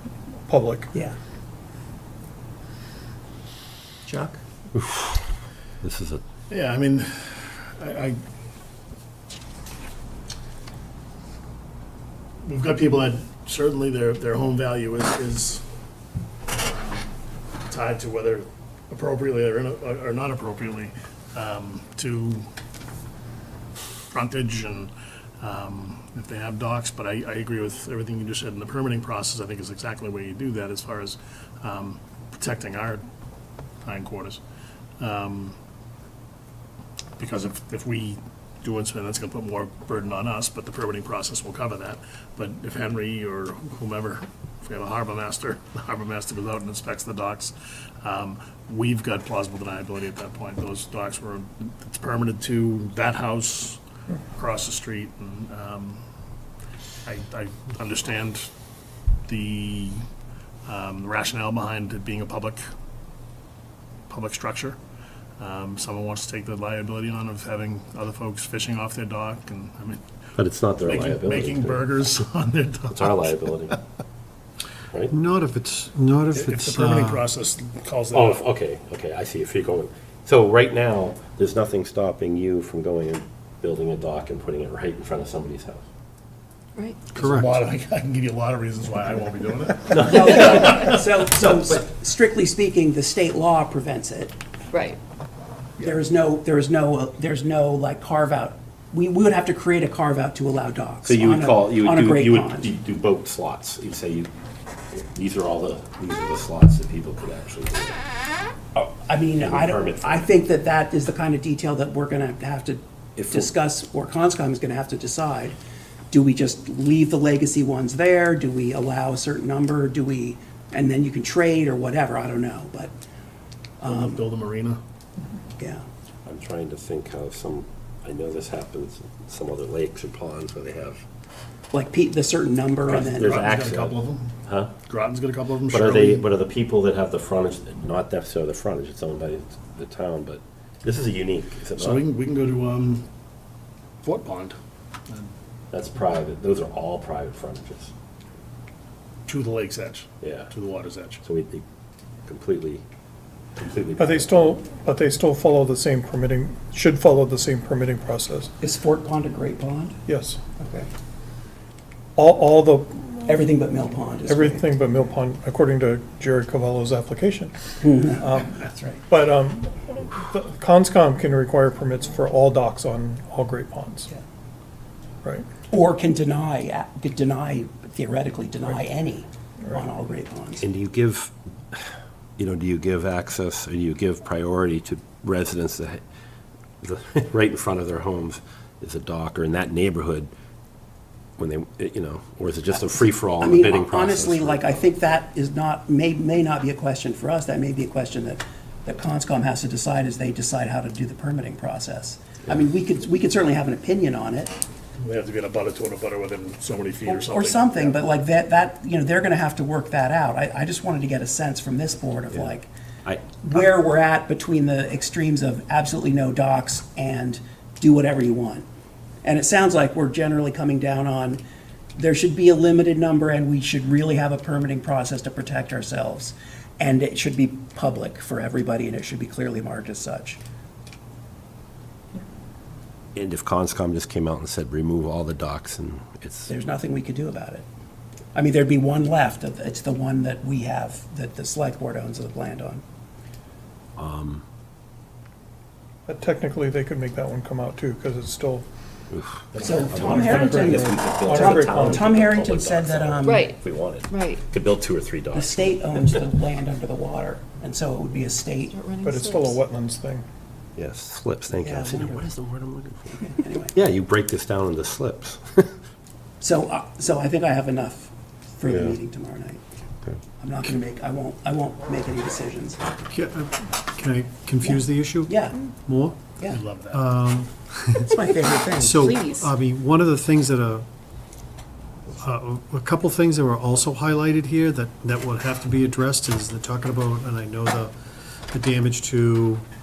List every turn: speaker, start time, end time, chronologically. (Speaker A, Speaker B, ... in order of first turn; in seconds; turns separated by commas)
Speaker A: 0.5-0.9, Speaker B: 4.0-4.4, Speaker C: 4.7-5.2, Speaker C: 5.8-6.2, Speaker D: 6.5-8.2, Speaker D: 12.4-15.6, Speaker D: 16.5-17.1, Speaker D: 17.7-22.4, Speaker D: 24.1-33.0, Speaker D: 33.8-34.4, Speaker D: 35.0-35.5, Speaker D: 37.2-53.8, Speaker D: 54.3-56.0, Speaker D: 57.0-58.5, Speaker D: 59.3-60.0, Speaker D: 60.6-62.6, Speaker D: 64.1-64.8, Speaker D: 65.4-70.0, Speaker C: 70.3-71.9, Speaker D: 70.8-73.3, Speaker C: 72.9-73.8, Speaker E: 75.1-77.2, Speaker D: 76.3-78.4, Speaker C: 78.1-85.8, Speaker F: 86.8-87.1, Speaker D: 87.1-91.0, Speaker E: 87.2-87.5, Speaker C: 89.9-90.5, Speaker B: 90.0-94.3, Speaker F: 94.7-95.0, Speaker B: 95.8-102.7, Speaker C: 101.0-104.3, Speaker C: 104.9-108.0, Speaker B: 108.7-115.5, Speaker C: 109.4-110.2, Speaker C: 113.2-113.5, Speaker B: 116.1-122.9, Speaker B: 123.8-124.2, Speaker D: 123.8-124.8, Speaker B: 125.6-125.8, Speaker C: 126.2-131.0, Speaker B: 131.7-133.3, Speaker C: 132.9-134.7, Speaker D: 133.1-134.3, Speaker D: 134.8-136.2, Speaker C: 135.7-142.0, Speaker D: 141.7-143.1, Speaker D: 144.0-144.6, Speaker C: 145.7-147.9, Speaker D: 149.3-151.2, Speaker C: 150.2-150.5, Speaker C: 151.2-151.6, Speaker C: 152.2-152.8, Speaker C: 153.6-154.6, Speaker A: 154.0-158.5, Speaker B: 158.6-160.0, Speaker A: 160.1-160.4, Speaker B: 160.6-160.9, Speaker A: 162.2-163.4, Speaker B: 163.2-164.7, Speaker A: 164.3-174.1, Speaker B: 167.8-169.0, Speaker A: 175.2-175.5, Speaker B: 175.7-180.6, Speaker C: 180.6-186.0, Speaker C: 186.8-190.3, Speaker C: 191.4-194.6, Speaker B: 193.4-204.6, Speaker D: 205.0-208.0, Speaker B: 207.0-212.7, Speaker B: 213.4-218.7, Speaker B: 219.2-221.4, Speaker B: 221.9-230.4, Speaker C: 233.1-236.5, Speaker B: 236.5-237.7, Speaker B: 238.3-242.8, Speaker C: 244.0-244.4, Speaker A: 246.1-248.7, Speaker C: 249.1-256.1, Speaker B: 249.6-253.5, Speaker A: 250.1-252.0, Speaker F: 253.2-254.4, Speaker B: 255.3-258.7, Speaker F: 258.7-259.6, Speaker A: 259.0-260.2, Speaker C: 260.8-265.7, Speaker B: 261.6-262.2, Speaker B: 263.1-263.7, Speaker B: 266.4-269.6, Speaker C: 268.6-269.0, Speaker B: 270.4-272.8, Speaker E: 273.1-276.3, Speaker B: 274.6-275.7, Speaker D: 276.5-277.1, Speaker E: 276.9-278.2, Speaker B: 278.1-279.2, Speaker E: 278.8-280.9, Speaker F: 279.0-279.5, Speaker E: 282.2-287.9, Speaker E: 288.5-289.6